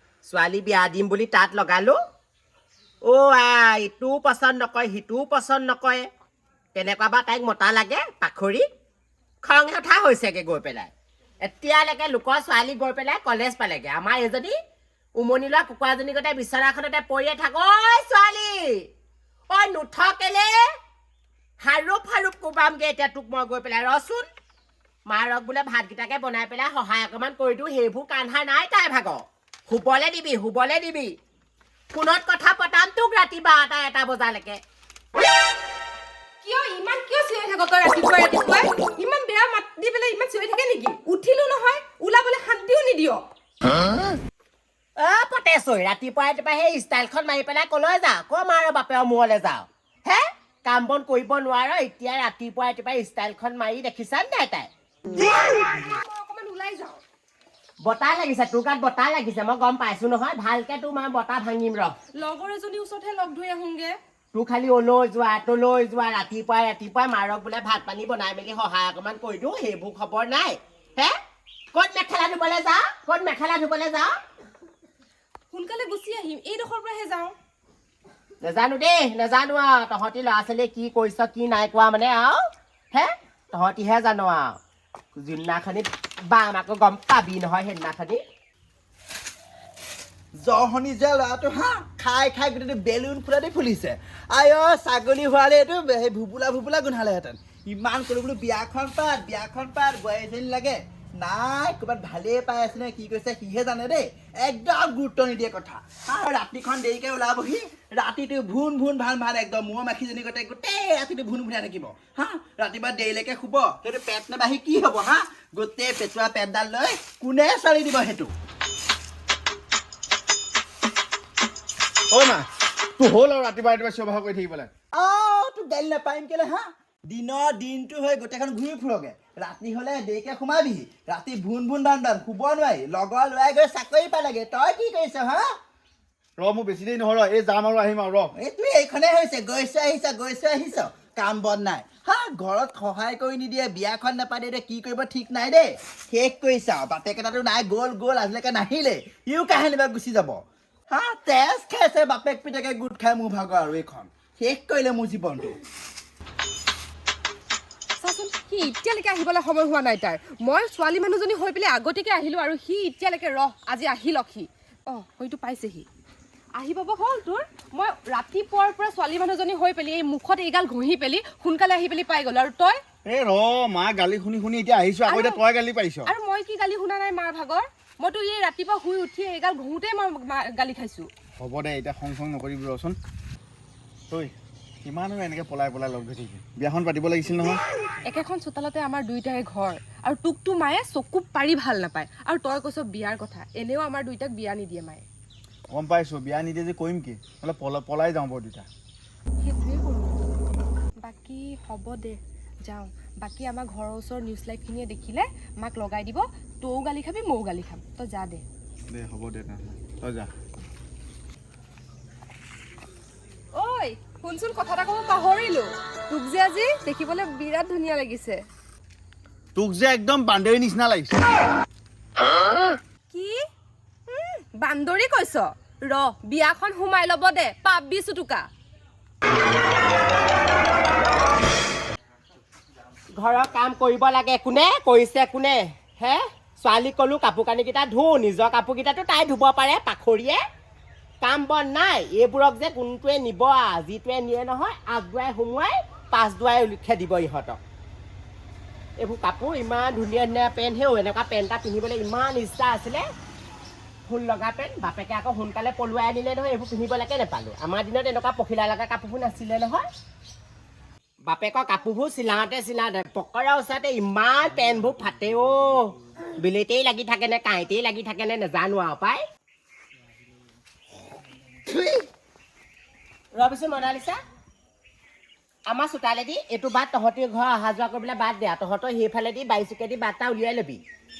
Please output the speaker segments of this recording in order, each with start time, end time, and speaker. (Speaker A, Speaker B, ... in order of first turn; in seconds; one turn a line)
Speaker A: 0.2-2.0
Speaker A: 3.0-6.1
Speaker A: 6.7-8.6
Speaker A: 9.4-14.6
Speaker A: 15.2-18.9
Speaker A: 19.5-20.7
Speaker A: 21.6-24.3
Speaker A: 25.1-31.2
Speaker A: 31.9-34.6
Speaker B: 36.4-43.3
Speaker A: 45.0-54.7
Speaker B: 55.2-57.0
Speaker A: 57.8-61.9
Speaker B: 62.2-64.0
Speaker A: 64.3-71.1
Speaker A: 71.7-74.2
Speaker B: 75.5-77.3
Speaker A: 78.4-84.6
Speaker A: 85.2-88.2
Speaker C: 90.3-118.3
Speaker D: 122.1-122.5
Speaker D: 123.0-124.7
Speaker C: 124.9-135.5
Speaker D: 136.4-138.3
Speaker C: 138.4-155.6
Speaker B: 158.0-165.9
Speaker B: 166.6-172.8
Speaker D: 173.1-176.1
Speaker B: 175.0-175.4
Speaker B: 176.0-181.1
Speaker D: 181.4-183.0
Speaker D: 184.1-187.6
Speaker B: 188.1-195.1
Speaker D: 195.7-198.7
Speaker B: 199.4-200.2
Speaker B: 201.0-208.4
Speaker D: 208.9-210.3
Speaker B: 213.5-218.4
Speaker D: 219.6-221.2
Speaker B: 223.1-223.4
Speaker B: 224.1-228.5
Speaker A: 233.2-240.4
Speaker A: 241.2-247.6
Speaker A: 249.0-253.1
Speaker A: 254.1-259.9
Speaker A: 261.3-269.2
Speaker C: 271.6-272.1
Speaker A: 273.3-274.2
Speaker A: 275.7-280.8